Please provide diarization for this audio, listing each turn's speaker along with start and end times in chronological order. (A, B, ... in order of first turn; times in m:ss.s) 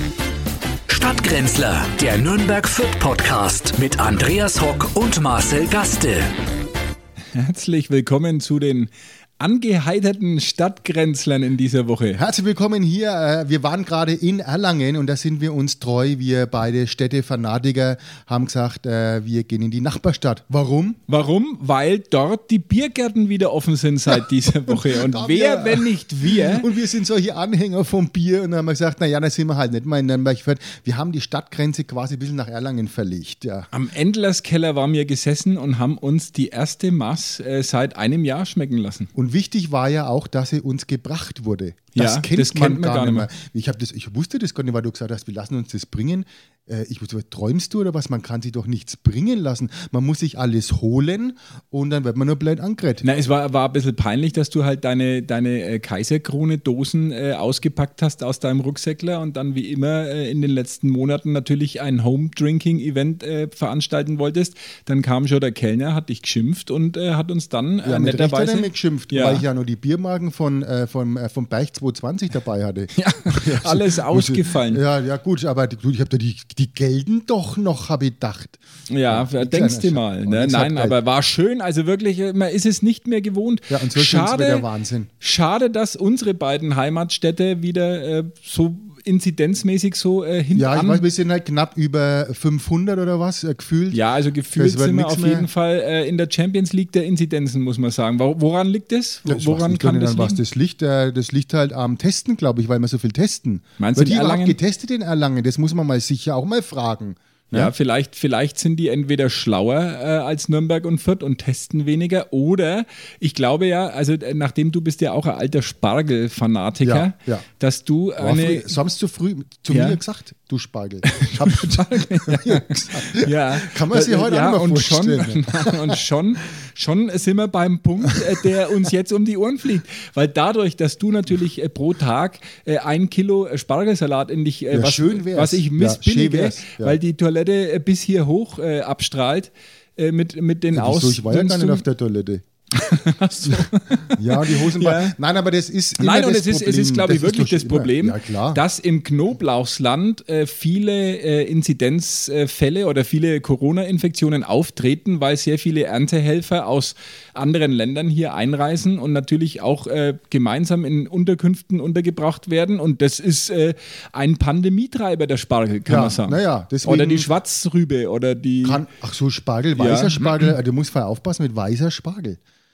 0:00.9-0:06.3 A
0:07.3-0:12.2 B
0:12.2-0:21.0 C
0:21.1-0:26.7 B
0:24.7-0:33.7 C
0:33.7-0:39.1 B
0:39.2-0:53.0 C
0:42.0-0:43.3 B
0:53.0-1:09.4 B
1:07.8-1:21.0 C
1:12.9-1:14.8 B
1:18.9-1:24.6 B
1:23.7-1:25.1 C
1:25.2-1:31.0 B
1:30.6-1:34.0 C
1:33.9-1:40.4 B
1:34.6-1:35.5 C
1:39.2-1:47.7 C
1:43.8-1:44.6 B
1:47.5-1:58.7 B
1:56.8-1:57.4 C
1:58.2-2:06.0 C
1:59.7-2:00.0 B
2:01.0-2:21.8 B
2:14.7-2:17.0 C
2:20.7-2:22.4 C
2:22.8-2:25.2 B
2:23.4-2:28.6 C
2:26.0-2:48.8 B
2:45.9-2:47.3 C
2:48.6-2:52.4 C
2:49.8-2:50.5 B